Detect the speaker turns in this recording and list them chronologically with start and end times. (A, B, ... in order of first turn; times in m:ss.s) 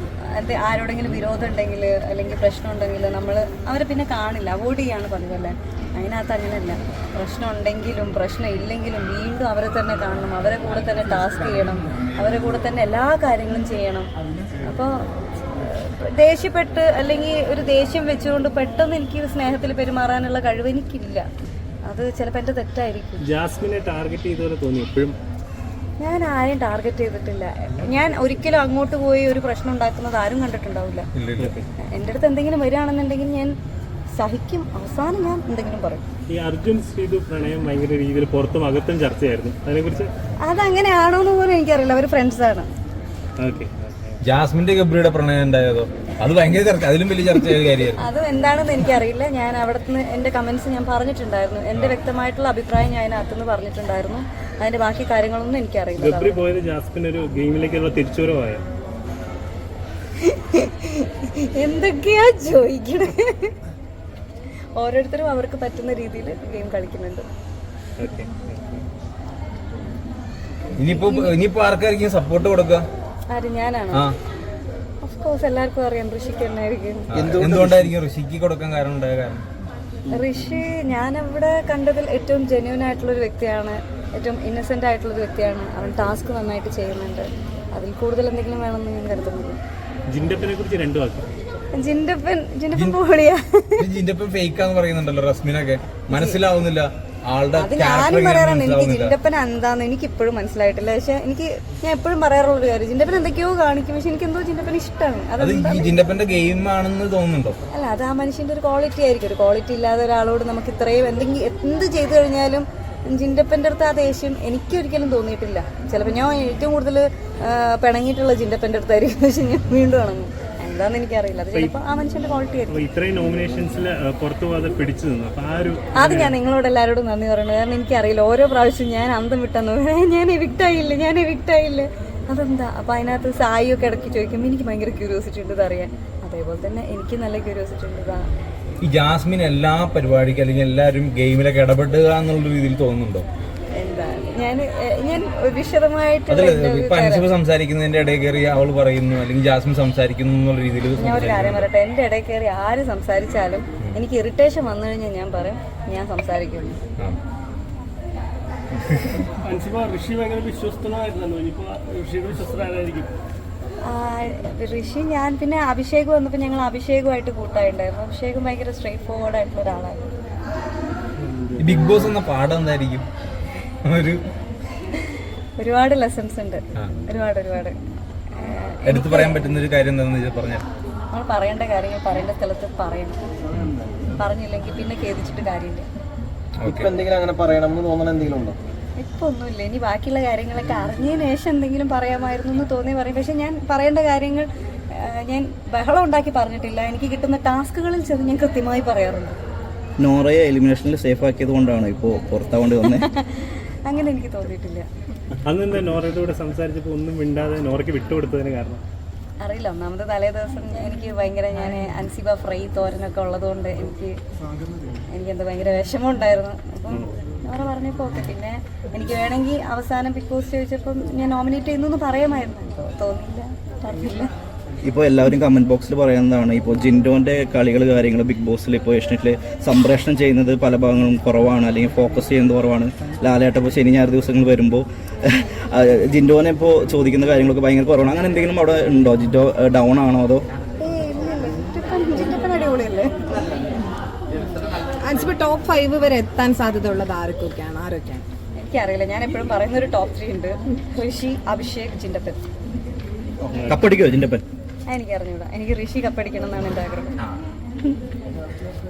0:00.2-0:14.1 A
0:14.6-0:21.3 A
0:21.8-0:23.2 A
0:23.2-0:25.2 B
0:26.0-0:31.1 A
0:31.2-0:31.5 C
0:31.4-0:31.7 B
0:31.8-0:33.6 A
0:34.2-0:36.0 A
0:36.3-0:40.1 B
0:40.4-0:42.7 A
0:43.4-0:44.2 B
0:44.2-0:48.0 C
0:48.0-0:56.4 A
0:56.0-0:58.6 B
1:00.2-1:03.5 A
1:04.8-1:07.2 A
1:08.0-1:08.8 B
1:10.8-1:12.8 C
1:10.8-1:11.3 A
1:13.3-1:14.0 A
1:15.0-1:17.1 A
1:17.1-1:19.4 C
1:17.1-1:17.9 D
1:20.1-1:29.6 A
1:30.1-1:31.3 B
1:31.7-1:33.9 A
1:33.8-1:39.1 C
1:36.1-1:36.4 A
1:37.5-1:46.0 A
1:45.4-1:47.6 C
1:47.7-2:02.8 A
2:02.7-2:06.4 B
2:06.0-2:18.3 A
2:18.8-2:23.2 C
2:23.7-2:27.3 A
2:26.3-2:31.7 C
2:31.0-2:36.8 A
2:39.2-2:43.1 B
2:43.8-2:50.1 A
2:51.2-2:52.1 B
2:51.6-2:53.1 C
2:53.8-2:54.2 C
2:55.6-2:57.8 A
2:58.3-2:59.6 A
2:58.9-3:00.7 C
3:01.1-3:03.2 A
3:04.2-3:05.9 A
3:06.6-3:07.0 C
3:06.7-3:08.6 D
3:09.0-3:19.4 A
3:20.0-3:23.1 E
3:22.9-3:24.9 A
3:25.4-3:28.8 B
3:29.4-3:34.2 A
3:35.1-3:44.3 A
3:44.8-4:00.4 E
4:00.8-4:03.2 A
4:05.0-4:08.2 F
4:08.6-4:12.4 A
4:13.5-4:13.8 B
4:13.7-4:14.4 E
4:14.9-4:17.2 A